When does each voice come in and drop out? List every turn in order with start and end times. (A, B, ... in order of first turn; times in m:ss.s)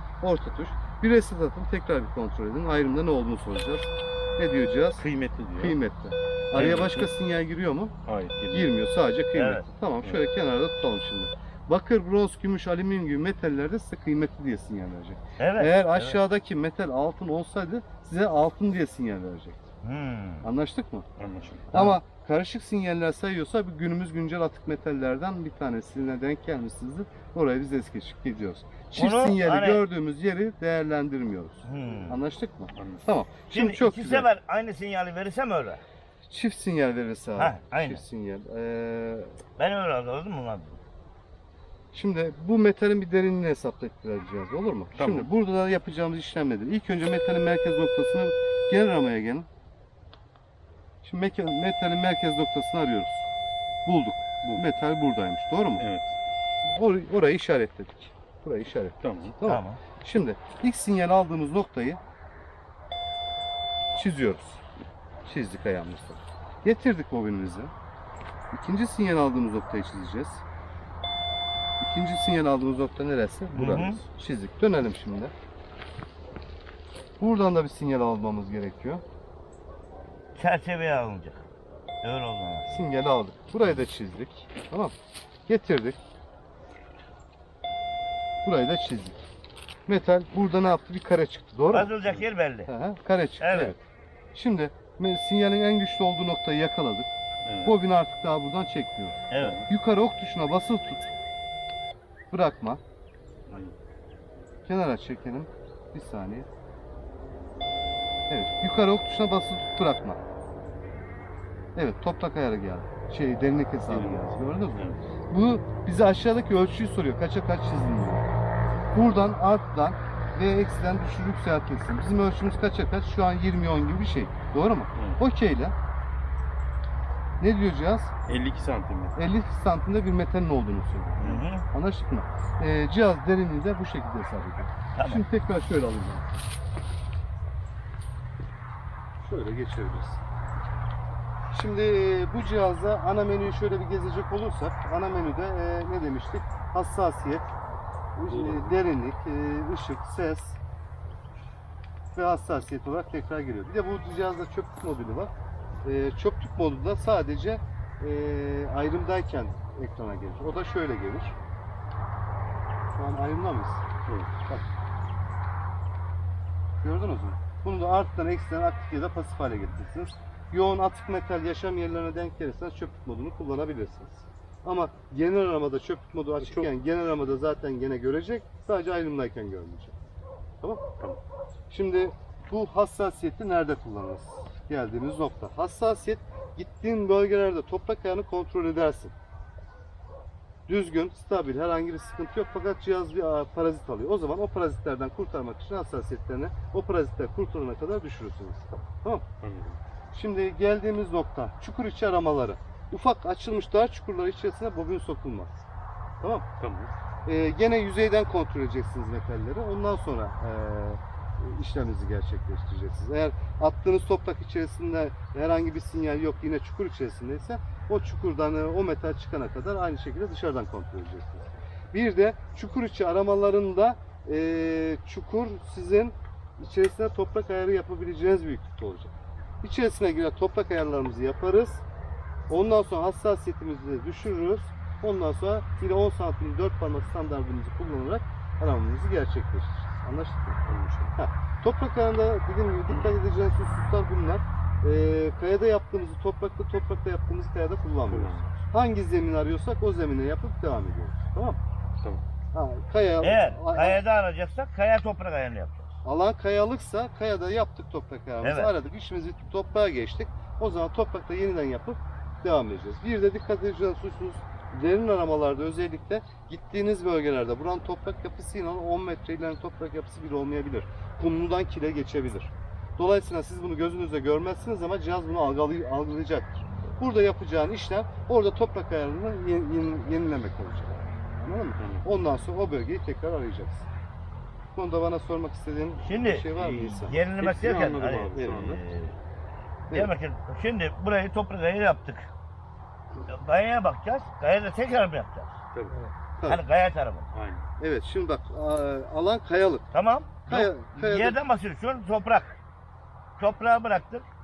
0:00.2-0:05.0 A
0:05.0-0:05.8 B
0:05.6-0:08.0 A
0:06.5-0:07.1 B
0:06.6-0:07.0 C
0:08.1-0:08.7 B
0:08.5-0:19.7 A
0:09.3-0:09.7 C
0:15.4-0:16.2 C
0:19.8-0:20.5 C
0:20.4-0:21.1 A
0:21.2-0:21.7 B
0:21.7-0:22.0 C
0:21.7-0:34.3 A
0:29.0-0:29.8 C
0:31.6-0:32.2 C
0:32.8-0:33.0 B
0:33.5-0:35.8 C
0:36.3-0:39.4 A
0:37.4-0:38.0 C
0:39.6-0:40.8 C
0:41.9-0:49.5 A
0:44.9-0:45.3 B
0:51.0-0:53.2 A
0:53.9-0:55.8 A
0:55.8-0:56.1 B
0:56.6-1:02.0 A
0:59.0-0:59.4 B
0:59.4-0:59.8 C
1:03.9-1:04.6 A
1:05.2-1:07.7 A
1:08.5-1:10.4 A
1:11.8-1:15.3 A
1:13.5-1:14.0 C
1:17.2-1:19.0 A
1:20.4-1:21.4 C
1:22.0-1:22.8 C
1:22.7-1:24.9 A
1:25.5-1:26.0 A
1:28.4-1:29.2 A
1:29.9-1:31.9 A
1:31.7-1:32.7 C
1:32.7-1:33.8 A
1:33.4-1:33.7 C
1:34.3-1:37.1 A
1:37.4-1:37.8 B
1:37.6-1:41.1 A
1:39.3-1:39.6 C
1:39.4-1:39.7 B
1:42.3-1:42.8 A
1:43.5-1:43.8 B
1:44.7-1:46.5 A
1:48.3-1:50.2 A
1:51.8-1:58.2 A
1:53.9-1:55.0 B
1:58.9-2:05.8 A
2:04.9-2:05.2 B
2:07.4-2:08.1 A
2:08.3-2:09.2 B
2:09.2-2:16.4 A
2:11.2-2:11.5 B
2:11.2-2:11.6 C
2:14.9-2:15.2 C
2:19.2-2:20.2 A
2:21.5-2:27.5 A
2:28.2-2:30.6 A
2:28.3-2:28.8 B
2:32.2-2:35.3 A
2:35.8-2:41.4 A
2:42.9-2:43.8 A
2:44.1-2:44.3 B
2:46.8-2:59.9 A
2:56.4-2:56.7 B
3:01.7-3:09.1 A
3:10.7-3:19.2 A
3:19.4-3:19.8 B
3:20.1-3:25.6 A
3:26.6-3:26.9 B
3:27.2-3:51.8 A
3:52.5-4:00.6 A
4:00.6-4:01.1 B
4:01.1-4:11.6 A
4:08.1-4:08.5 B
4:12.5-4:14.0 A
4:13.2-4:15.9 C
4:16.0-4:43.9 A
4:18.4-4:18.7 C
4:41.8-4:42.1 B
4:44.8-4:47.2 A
4:46.0-4:49.2 C
4:47.4-4:48.8 B
4:48.3-4:48.6 A
4:49.9-4:52.3 C
4:53.2-4:55.5 C
4:55.7-4:56.0 B
4:56.4-4:57.3 C
4:57.3-4:57.7 B
4:57.8-4:59.9 A
4:59.9-5:02.6 C
5:00.5-5:01.4 A
5:03.4-5:04.2 C